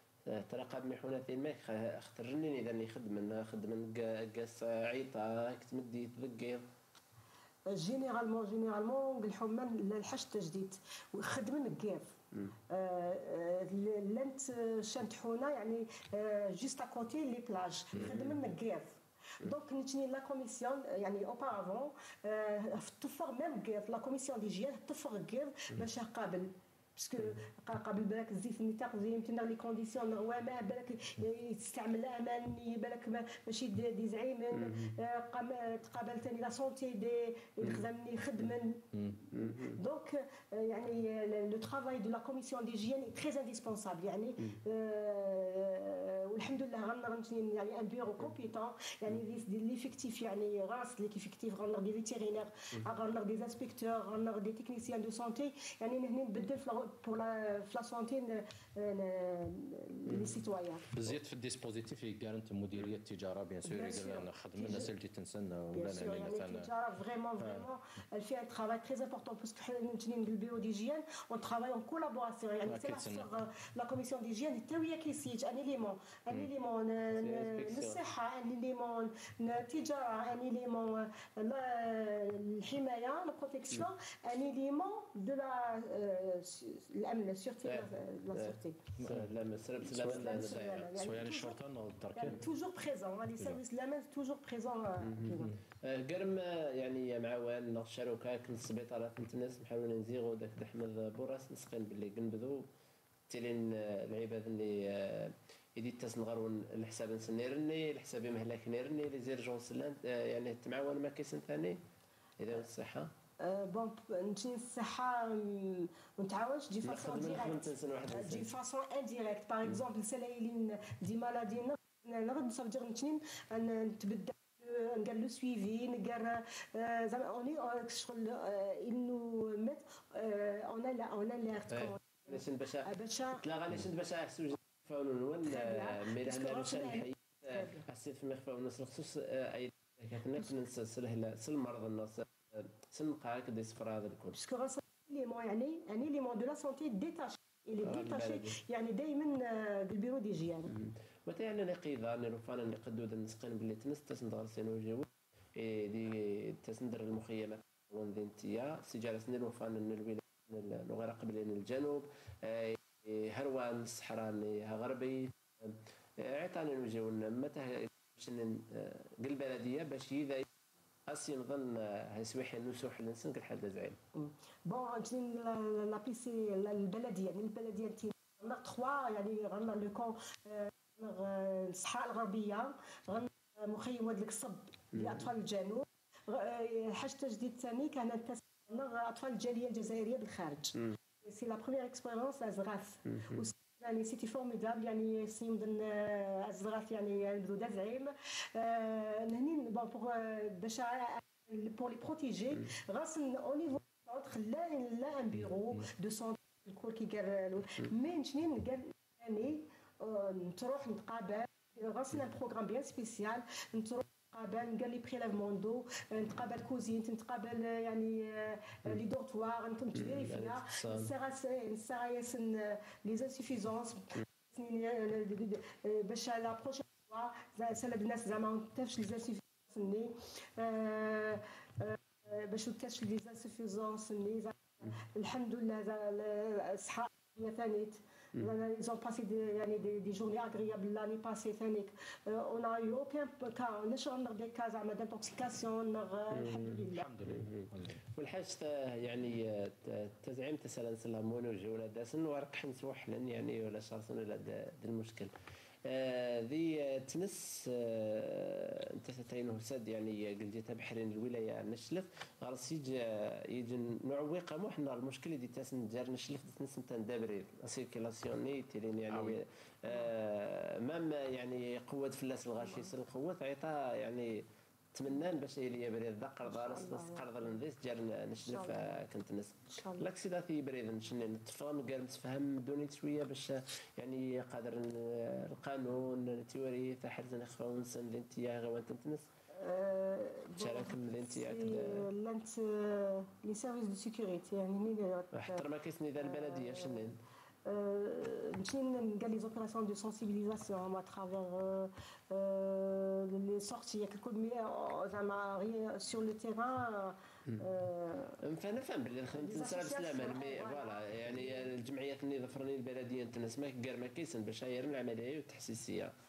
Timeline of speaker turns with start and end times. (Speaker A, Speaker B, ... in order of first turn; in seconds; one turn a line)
Speaker A: 0.3-6.6
Speaker B: 7.7-12.1
Speaker B: 12.7-38.8
Speaker A: 17.9-18.4
Speaker A: 34.5-34.9
Speaker C: 38.9-39.2
Speaker A: 39.3-39.8
Speaker B: 39.8-60.8
Speaker C: 60.9-66.7
Speaker B: 63.6-64.9
Speaker B: 65.7-88.8
Speaker C: 67.4-67.7
Speaker C: 72.6-73.3
Speaker A: 77.1-78.0
Speaker A: 87.6-90.9
Speaker C: 89.0-89.3
Speaker C: 89.8-92.4
Speaker B: 89.9-91.6
Speaker B: 92.1-95.5
Speaker A: 95.0-102.7
Speaker A: 103.3-111.8
Speaker A: 112.4-113.1
Speaker B: 113.4-133.4
Speaker A: 116.8-118.5
Speaker A: 131.7-144.4
Speaker B: 135.4-137.8
Speaker B: 144.3-150.7
Speaker A: 147.8-148.6
Speaker A: 150.7-170.4
Speaker A: 171.1-174.0
Speaker B: 174.1-247.1
Speaker A: 184.9-185.3
Speaker A: 193.1-193.4
Speaker A: 219.9-221.1
Speaker A: 246.3-255.3
Speaker A: 255.8-274.4
Speaker A: 274.9-289.3
Speaker B: 276.5-277.2
Speaker B: 278.5-278.8
Speaker B: 279.7-280.0
Speaker B: 289.6-295.6
Speaker A: 290.6-292.1
Speaker A: 295.3-297.2
Speaker B: 296.2-297.0
Speaker B: 297.6-308.4
Speaker A: 308.4-316.1
Speaker B: 309.4-311.7